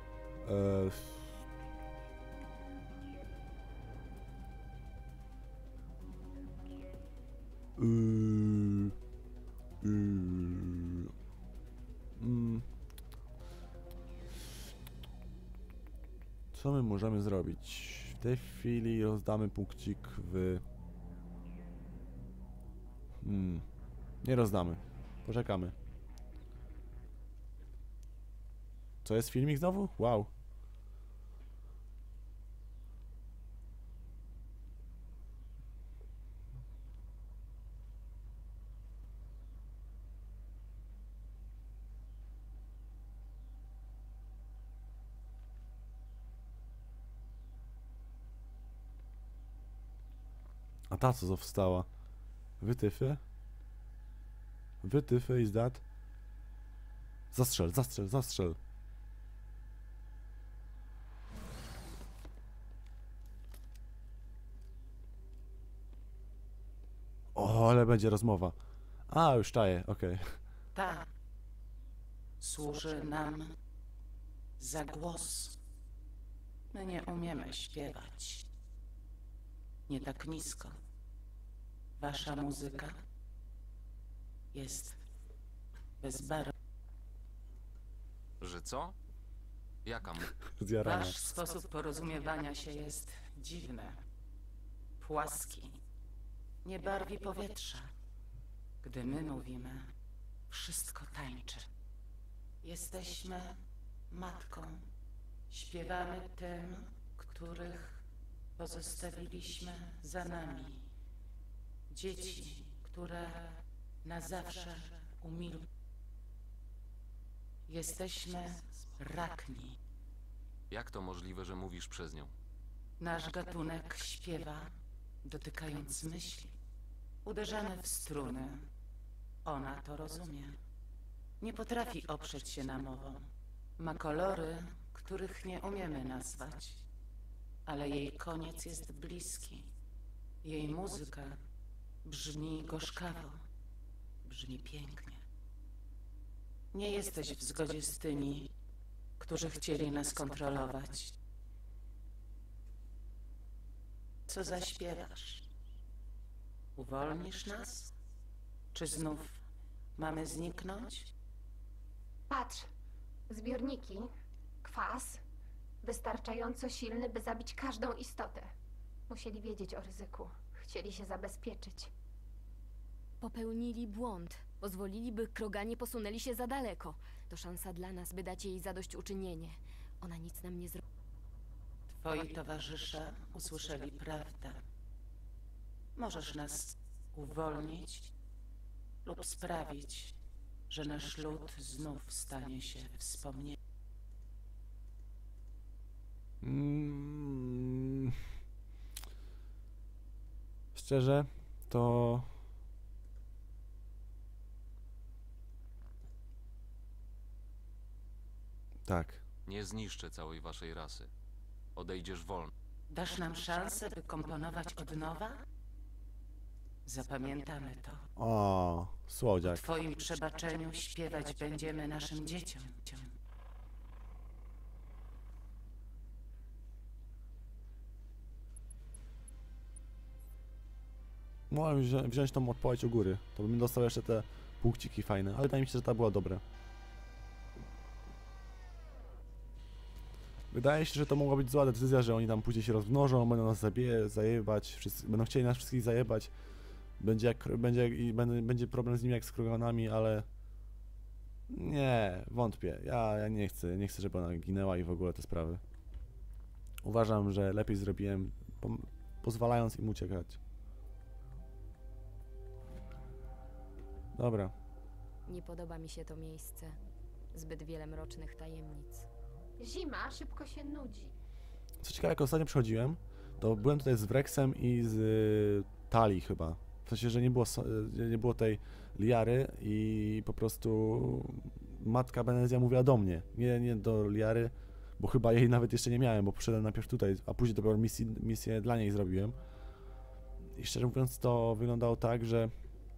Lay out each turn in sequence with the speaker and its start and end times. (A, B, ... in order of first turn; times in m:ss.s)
0:00.4-0:01.3 A
0:07.8-0:09.0 A
0:09.8-0:11.1 A
0:12.2-0:12.7 A
0:16.5-0:20.6 A
0:23.2-0:23.6 A
0:24.2-0:25.8 A
0:29.0-0:30.3 A
0:50.9-0:51.9 A
0:52.6-0:53.2 A
0:54.8-0:55.8 A
0:57.3-0:58.6 A
1:07.4-1:08.6 A
1:09.1-1:10.4 A
1:10.8-1:11.1 B
1:12.4-1:13.6 B
1:14.6-1:15.6 B
1:16.7-1:18.5 B
1:19.9-1:20.8 B
1:22.0-1:23.0 B
1:24.5-1:25.0 B
1:26.0-1:26.5 B
1:28.4-1:29.0 C
1:29.8-1:30.4 C
1:30.5-1:31.2 A
1:30.8-1:34.0 B
1:35.0-1:35.8 B
1:36.6-1:37.9 B
1:38.8-1:39.9 B
1:40.5-1:41.7 B
1:42.6-1:44.9 B
1:45.5-1:48.0 B
1:48.6-1:50.9 B
1:51.9-1:55.7 B
1:57.7-1:59.8 B
2:00.7-2:02.3 C
2:03.0-2:06.6 B
2:07.2-2:08.7 B
2:09.4-2:10.6 B
2:11.4-2:16.8 B
2:17.7-2:19.7 B
2:20.4-2:21.4 B
2:22.0-2:23.4 B
2:24.2-2:25.2 B
2:26.7-2:28.5 B
2:29.2-2:31.2 B
2:34.3-2:35.5 B
2:36.8-2:37.9 B
2:38.7-2:39.4 B
2:40.0-2:41.1 B
2:42.3-2:42.7 D
2:43.3-2:44.1 D
2:44.6-2:45.2 D
2:45.8-2:48.5 D
2:49.1-2:51.9 D
2:53.2-3:00.8 E
3:01.9-3:04.6 B
3:06.0-3:08.1 B
3:09.0-3:10.2 B
3:10.7-3:13.6 B
3:16.4-3:18.2 A
3:20.8-3:22.3 A
3:28.9-3:29.2 A
3:29.5-3:31.1 C
3:31.8-3:32.5 C
3:32.9-3:35.4 B
3:36.8-3:38.0 B
3:38.2-3:39.6 A
3:39.4-3:43.2 B
3:51.5-3:56.4 A
4:00.5-4:06.3 A
4:07.0-4:10.3 A
4:11.5-4:15.6 A
4:16.8-4:20.4 A
4:24.1-4:24.5 A
4:25.3-4:26.8 E
4:27.3-4:29.1 E
4:29.6-4:31.1 D
4:31.8-4:49.4 A
4:50.6-4:52.5 A